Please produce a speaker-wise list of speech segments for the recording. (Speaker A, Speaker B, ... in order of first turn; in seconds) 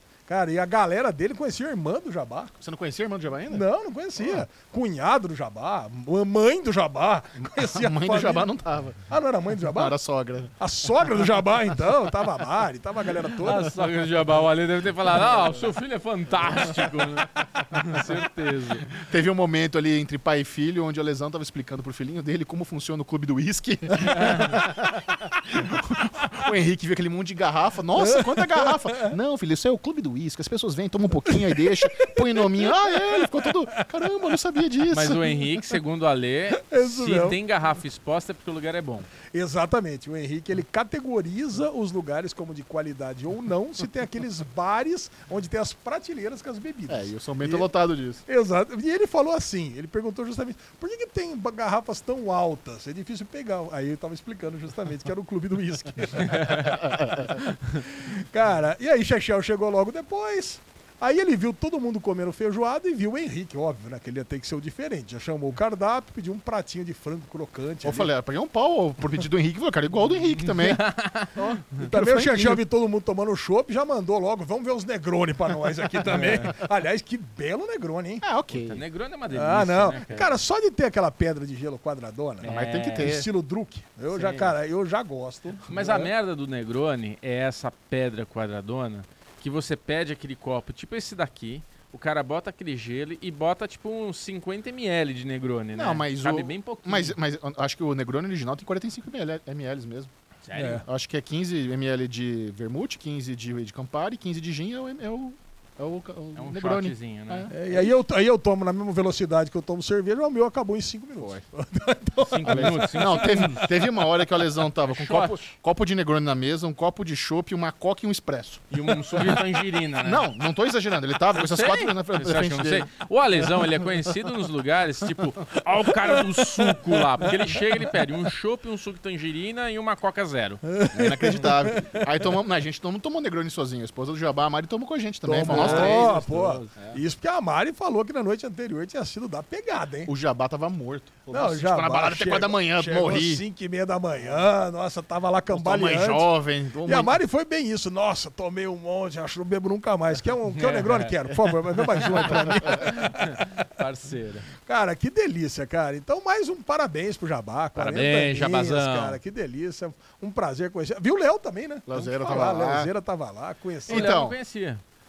Speaker A: 0.3-2.5, 3.5-8.5, 9.1-10.0, 10.6-13.8, 28.0-29.1, 31.3-33.8, 36.5-37.4, 39.3-47.7, 48.3-68.1, 71.8-78.3, 79.3-86.1, 100.5-100.8, 107.5-113.1, 126.1-126.8, 130.7-132.1, 135.2-140.1, 141.3-146.3, 146.8-153.5, 154.6-164.2
Speaker B: 2.6-3.7, 7.4-10.5, 18.9-35.4, 46.9-48.2, 67.8-72.6, 78.2-78.8, 82.4-83.3, 95.7-100.1, 100.8-107.9, 112.5-119.4, 120.0-122.9, 130.9-136.2, 140.1-143.4, 145.5-147.2, 161.9-162.9, 163.9-164.4
Speaker C: 13.4-18.9, 24.0-24.6, 34.9-39.1, 56.3-56.7, 70.4-71.4, 76.1-76.5, 78.7-80.3, 82.4-83.1, 84.1-84.5, 85.7-97.2, 100.5-100.8, 106.4-107.5, 112.2-113.8, 114.8-115.5, 118.7-120.3, 121.3-130.6, 135.4-136.7, 150.5-151.3, 152.2-154.5, 157.8-159.2, 163.9-164.8